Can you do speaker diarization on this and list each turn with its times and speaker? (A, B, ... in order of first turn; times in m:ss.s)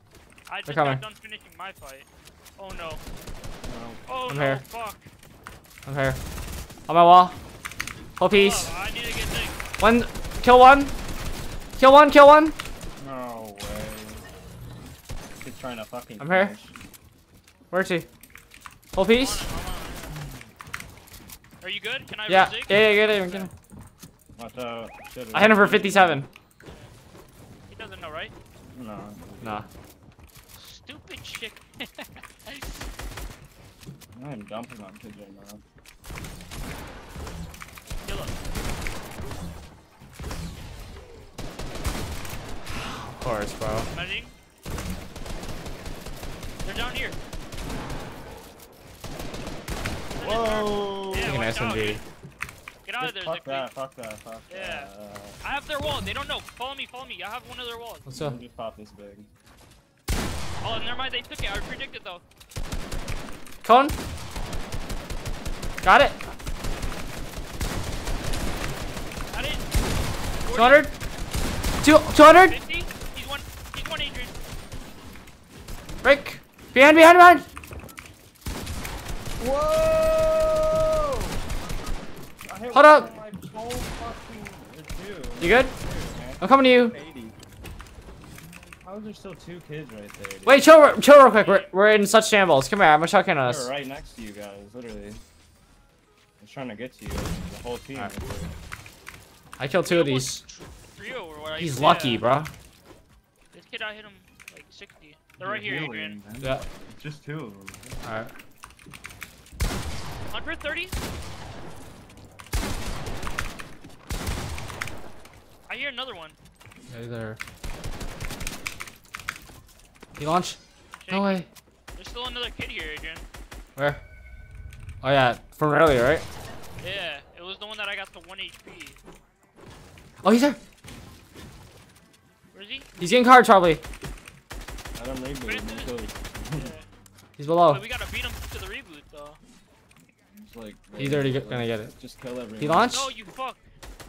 0:00.5-0:03.0 A
0:00.7-0:01.0 B
0:03.6-0:04.0 C
0:04.1-0:05.1 A
0:04.3-0:04.6 B
0:05.8-0:06.2 B
0:06.9-0:07.4 B
0:08.2-0:08.7 B
0:08.3-0:09.6 A
0:09.8-0:10.9 B
0:11.8-0:12.6 B
0:13.0-0:14.2 C
0:15.4-0:16.8 C
0:16.2-0:16.5 B
0:17.7-0:18.0 B
0:18.9-0:19.5 B
0:19.1-0:20.2 A
0:21.6-0:23.5 A
0:22.3-0:23.5 B
0:24.4-0:26.2 C
0:25.3-0:26.3 B
0:26.6-0:26.9 A
0:27.7-0:28.3 A
0:28.7-0:29.7 C
0:29.4-0:29.6 B
0:30.5-0:32.8 A
0:34.1-0:35.6 C
0:38.0-0:38.4 A
0:42.7-0:43.9 B
0:43.9-0:44.3 A
0:46.6-0:47.2 A
0:50.1-0:52.0 A
0:50.2-0:51.4 C
0:51.2-0:52.0 B
0:52.8-0:53.7 A
0:53.0-0:55.4 C
0:54.5-0:54.9 A
0:55.4-0:58.0 A
0:58.0-0:58.4 B
0:58.1-0:59.3 C
1:00.6-1:02.2 A
1:03.6-1:04.0 B
1:05.8-1:06.2 B
1:09.3-1:09.7 A
1:10.4-1:10.9 A
1:10.5-1:10.9 B
1:11.8-1:12.6 B
1:12.4-1:14.3 A
1:16.0-1:17.4 B
1:19.4-1:21.4 C
1:22.4-1:27.4 C
1:22.7-1:23.1 B
1:25.4-1:25.7 B
1:26.4-1:26.9 B
1:28.4-1:30.7 C
1:30.4-1:33.7 B
1:31.3-1:31.7 A
1:33.4-1:35.2 C
1:36.4-1:38.5 C
1:39.6-1:40.4 B
1:39.9-1:42.3 A
1:41.6-1:42.5 B
1:43.5-1:46.2 A
1:45.4-1:48.0 C
1:48.0-1:48.3 B
1:50.3-1:50.9 A
1:55.7-1:56.4 A
1:56.9-1:57.4 B
2:00.2-2:00.6 B
2:01.0-2:01.4 A
2:01.1-2:01.5 B
2:02.0-2:03.2 A
2:03.8-2:04.0 B
2:05.0-2:06.2 B
2:06.8-2:09.0 A
2:10.2-2:10.6 B
2:12.5-2:12.9 A
2:13.0-2:13.8 B
2:15.0-2:16.7 C
2:15.4-2:16.9 A
2:17.4-2:17.8 B
2:17.6-2:19.4 A
2:20.1-2:22.9 C
2:21.0-2:21.9 B
2:22.6-2:23.1 B
2:22.9-2:23.7 A